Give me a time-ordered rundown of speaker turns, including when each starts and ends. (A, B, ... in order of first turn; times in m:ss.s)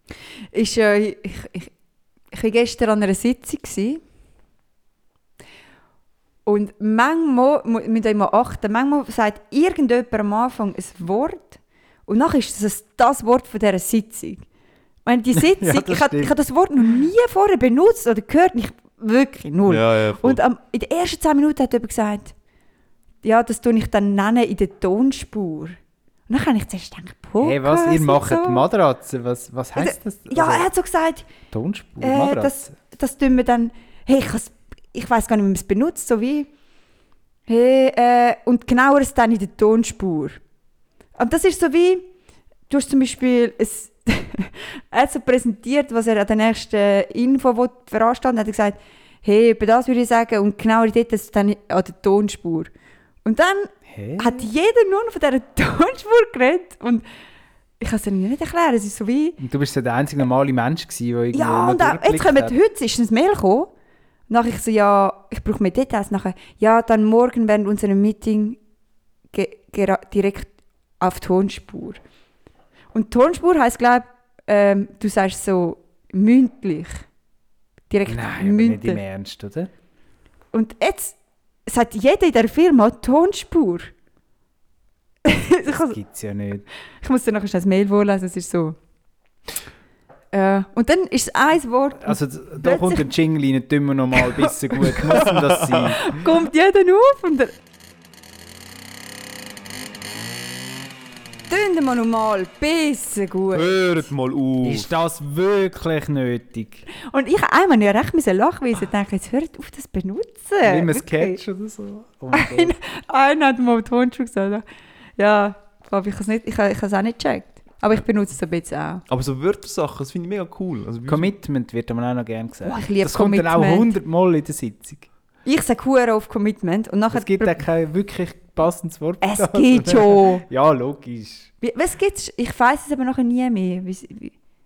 0:00.5-0:01.7 A
0:02.3-0:04.0 A
0:06.5-0:14.4 A
0:15.0-0:22.3 A
0:15.5-0:16.4 B
0:19.7-0:20.4 C
0:23.2-0:25.8 A
0:26.3-0:28.7 A
0:27.4-0:30.7 B
0:29.8-0:31.3 A
0:31.5-0:32.7 B
0:32.0-0:36.5 A
0:37.5-0:40.4 A
0:41.2-0:42.1 A
0:42.7-0:52.7 A
0:53.2-0:57.0 A
0:53.9-0:54.5 B
0:57.8-0:59.4 A
0:59.4-1:02.6 B
1:01.3-1:03.7 A
1:04.3-1:08.6 A
1:09.3-1:12.0 A
1:12.9-1:17.0 A
1:17.9-1:19.0 A
1:18.1-1:19.7 B
1:20.5-1:23.9 A
1:25.2-1:26.0 A
1:25.6-1:26.6 B
1:27.0-1:28.8 A
1:30.3-1:33.1 A
1:32.0-1:36.2 B
1:34.4-1:35.2 A
1:35.6-1:35.9 C
1:36.0-1:37.5 A
1:41.5-1:43.8 A
1:43.5-1:44.9 C
1:44.6-1:46.9 B
1:46.9-1:51.4 A
1:50.6-1:52.8 B
1:52.3-1:54.6 A
1:55.2-1:59.0 A
1:59.1-2:01.3 C
2:01.1-2:05.1 B
2:02.6-2:03.9 A
2:05.4-2:07.6 A
2:07.1-2:11.5 B
2:09.2-2:10.4 A
2:11.6-2:14.3 A